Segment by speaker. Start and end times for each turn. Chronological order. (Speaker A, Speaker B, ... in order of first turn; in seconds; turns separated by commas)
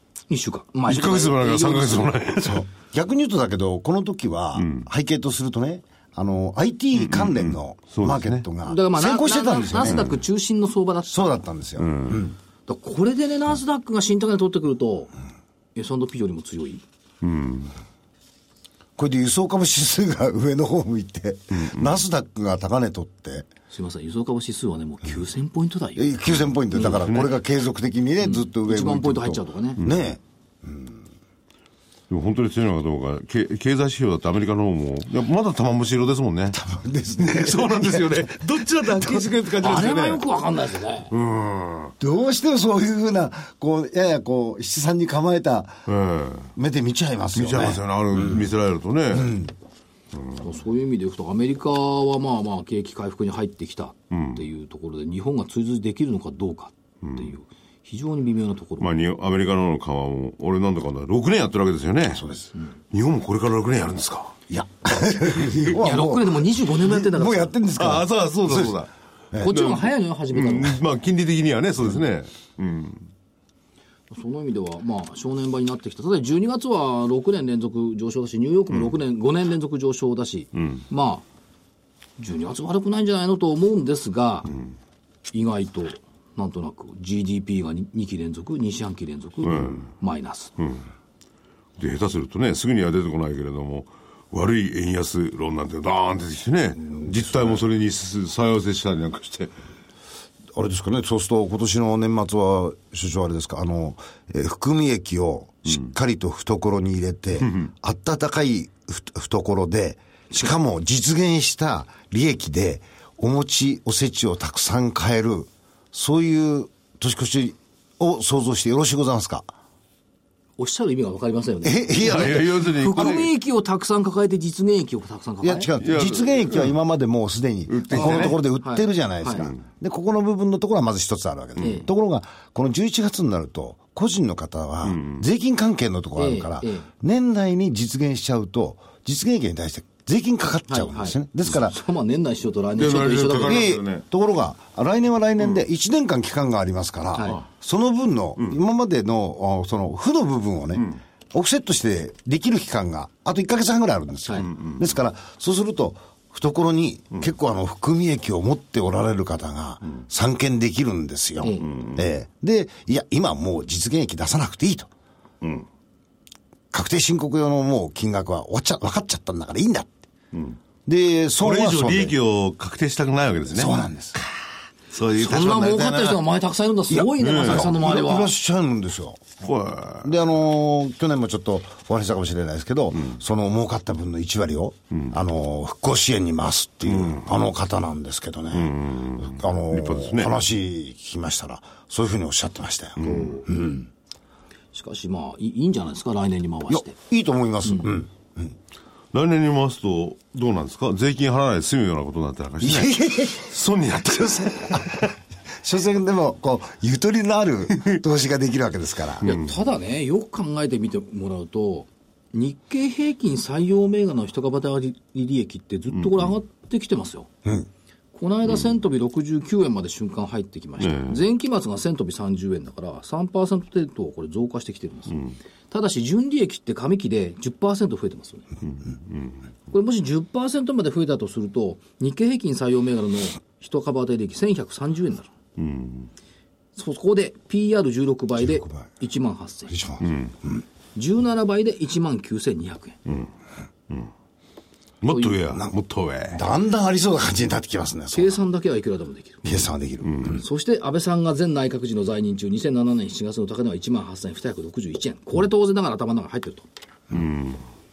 Speaker A: 0.3-2.1, Speaker B: 0.9-2.6, Speaker C: 2.4-10.1, Speaker B: 4.6-4.9, Speaker B: 7.0-8.4, Speaker A: 8.6-11.4, Speaker B: 9.8-10.2, Speaker C: 11.1-12.3, Speaker B: 11.8-12.3, Speaker A: 12.7-15.1, Speaker A: 15.8-16.8, Speaker B: 17.2-17.7, Speaker C: 19.0-23.5, Speaker A: 23.7-26.1, Speaker C: 25.9-31.0, Speaker B: 26.7-27.3, Speaker A: 28.2-29.8, Speaker B: 29.8-30.1, Speaker B: 32.1-36.6, Speaker C: 36.5-39.3, Speaker B: 37.2-40.2, Speaker A: 39.6-41.1, Speaker B: 41.1-41.9, Speaker C: 42.0-45.8, Speaker B: 45.9-46.5, Speaker C: 46.5-48.4, Speaker B: 47.4-49.4, Speaker C: 49.1-49.5, Speaker A: 50.4-58.9, Speaker B: 54.1-54.4, Speaker B: 57.0-57.3, Speaker B: 58.8-62.3, Speaker C: 62.1-62.5, Speaker B: 62.9-64.3, Speaker C: 64.5-68.8, Speaker A: 65.7-67.5, Speaker B: 67.8-68.9, Speaker A: 69.4-70.8, Speaker B: 69.4-73.0, Speaker A: 74.1-81.2, Speaker B: 80.5-80.8, Speaker A: 82.2-84.5, Speaker A: 85.3-90.5, Speaker B: 89.4-89.8, Speaker B: 90.6-90.8, Speaker B: 91.8-99.5, Speaker C: 96.9-97.6, Speaker C: 100.5-119.5, Speaker B: 107.4-107.7, Speaker A: 120.6-125.7, Speaker C: 121.6-123.1, Speaker B: 122.0-123.3, Speaker C: 125.4-141.8, Speaker B: 125.8-126.8, Speaker B: 127.7-128.4, Speaker A: 127.9-129.5, Speaker A: 131.6-131.9, Speaker B: 134.8-135.2, Speaker A: 136.2-136.9, Speaker A: 140.7-143.7, Speaker B: 142.8-144.1, Speaker C: 143.4-164.9, Speaker A: 147.1-147.4, Speaker B: 154.5-154.8, Speaker A: 161.4-161.7, Speaker B: 161.6-162.0, Speaker C: 166.7-169.9, Speaker B: 170.3-170.6, Speaker C: 170.9-172.1, Speaker B: 171.4-173.8, Speaker C: 173.5-174.2, Speaker B: 174.9-176.2, Speaker A: 175.1-178.3, Speaker C: 176.9-179.3, Speaker B: 177.2-177.8, Speaker B: 179.4-180.2, Speaker C: 180.0-193.9, Speaker B: 186.9-187.3, Speaker B: 188.5-190.3, Speaker B: 193.0-193.4, Speaker A: 193.0-193.5, Speaker A: 194.7-196.9, Speaker C: 196.7-198.6, Speaker B: 199.1-205.1, Speaker C: 202.6-203.5, Speaker C: 204.4-209.3, Speaker B: 209.2-209.5, Speaker A: 209.2-217.3, Speaker B: 215.9-216.3, Speaker A: 218.1-225.2, Speaker B: 220.8-221.2, Speaker A: 225.7-228.5, Speaker B: 228.9-229.3, Speaker A: 229.7-235.3, Speaker B: 235.6-236.1, Speaker A: 236.8-239.8, Speaker C: 238.4-238.9, Speaker C: 239.7-240.6, Speaker B: 240.0-240.3, Speaker A: 240.9-243.0, Speaker B: 245.0-246.4, Speaker A: 245.1-245.4, Speaker C: 246.3-248.4, Speaker A: 248.1-249.5, Speaker C: 249.4-250.4, Speaker B: 250.0-250.4, Speaker A: 250.3-256.7, Speaker B: 257.1-257.6